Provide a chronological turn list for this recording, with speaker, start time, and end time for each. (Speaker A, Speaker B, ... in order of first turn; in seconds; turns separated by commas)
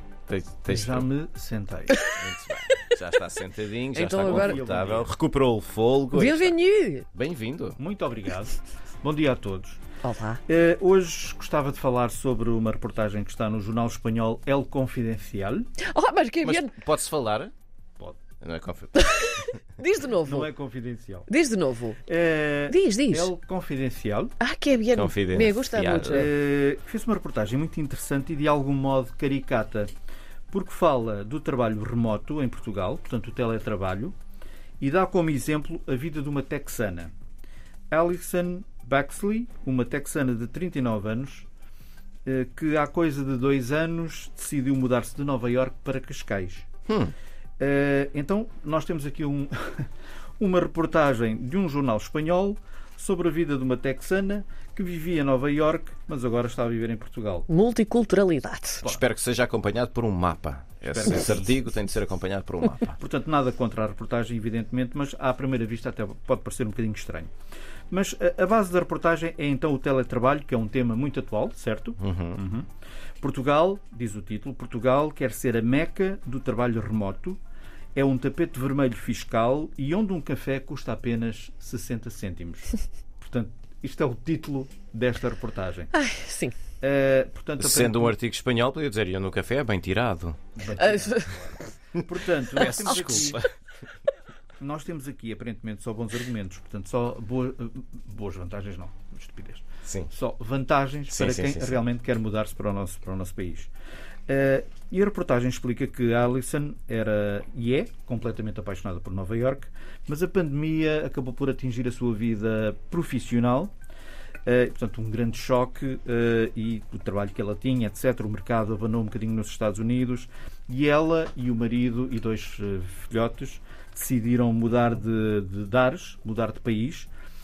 Speaker A: 0.3-1.1, Speaker B: 0.7-2.1, Speaker A: 2.2-6.5, Speaker C: 4.0-4.6, Speaker B: 4.2-5.1, Speaker C: 6.1-7.1, Speaker A: 7.1-7.8, Speaker B: 7.8-9.8, Speaker C: 10.0-10.4, Speaker B: 10.5-15.7, Speaker C: 15.9-16.8, Speaker A: 16.4-17.5, Speaker A: 18.4-19.5, Speaker C: 18.9-20.5, Speaker B: 20.2-21.3, Speaker C: 21.3-22.0, Speaker B: 22.1-24.3, Speaker C: 22.7-23.3, Speaker C: 24.4-26.3, Speaker A: 24.9-26.3, Speaker B: 26.1-29.9, Speaker B: 30.5-34.1, Speaker B: 34.8-37.1, Speaker B: 37.9-41.5, Speaker B: 42.3-46.7, Speaker A: 46.9-47.1, Speaker B: 47.6-49.9, Speaker B: 50.4-57.5, Speaker C: 57.5-58.8, Speaker A: 58.8-63.0, Speaker B: 60.9-61.5, Speaker B: 63.0-67.3, Speaker B: 67.9-72.7, Speaker A: 72.0-72.4, Speaker B: 73.2-77.4, Speaker B: 78.0-85.9, Speaker C: 86.0-86.5, Speaker B: 86.8-88.1, Speaker A: 87.6-90.5, Speaker B: 90.6-93.4, Speaker C: 90.8-91.3, Speaker A: 92.5-93.5, Speaker B: 94.6-103.7, Speaker A: 101.1-101.8, Speaker B: 104.3-113.7, Speaker B: 114.5-127.1